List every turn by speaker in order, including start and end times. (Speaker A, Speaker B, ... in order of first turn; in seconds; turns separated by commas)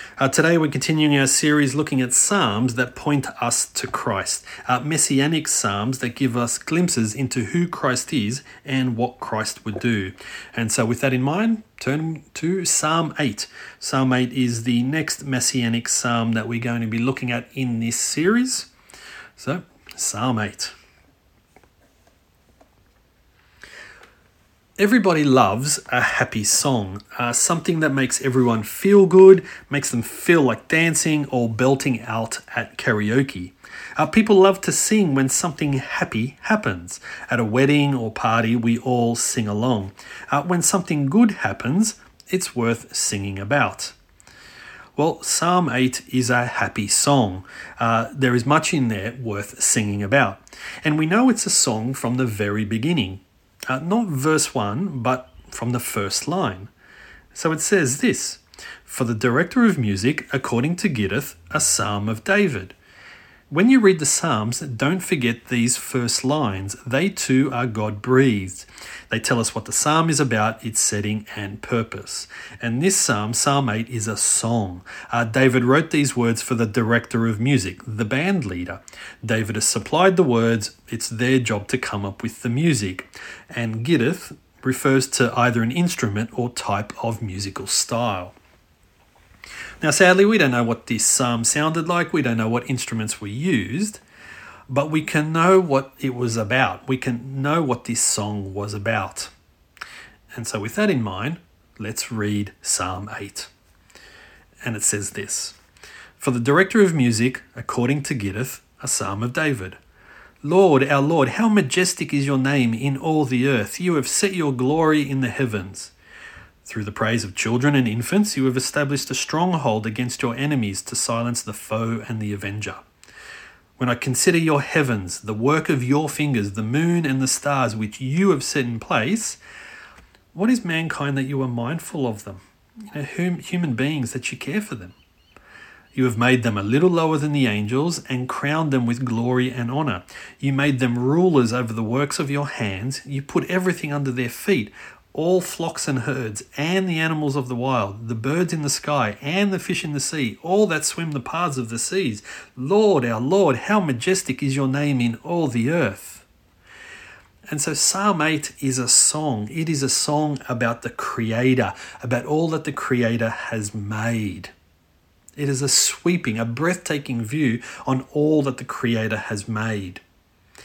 Speaker A: 0.2-18.7, Speaker A: 19.4-20.7, Speaker A: 24.8-44.0, Speaker A: 45.0-56.7, Speaker A: 57.3-62.8, Speaker A: 63.5-88.3, Speaker A: 89.8-94.0, Speaker A: 94.7-99.3, Speaker A: 100.3-103.5, Speaker A: 104.6-105.6, Speaker A: 106.2-109.8, Speaker A: 110.4-115.9, Speaker A: 116.6-122.8, Speaker A: 123.8-129.4, Speaker A: 130.3-134.9, Speaker A: 135.9-156.2, Speaker A: 157.5-164.5, Speaker A: 165.3-170.0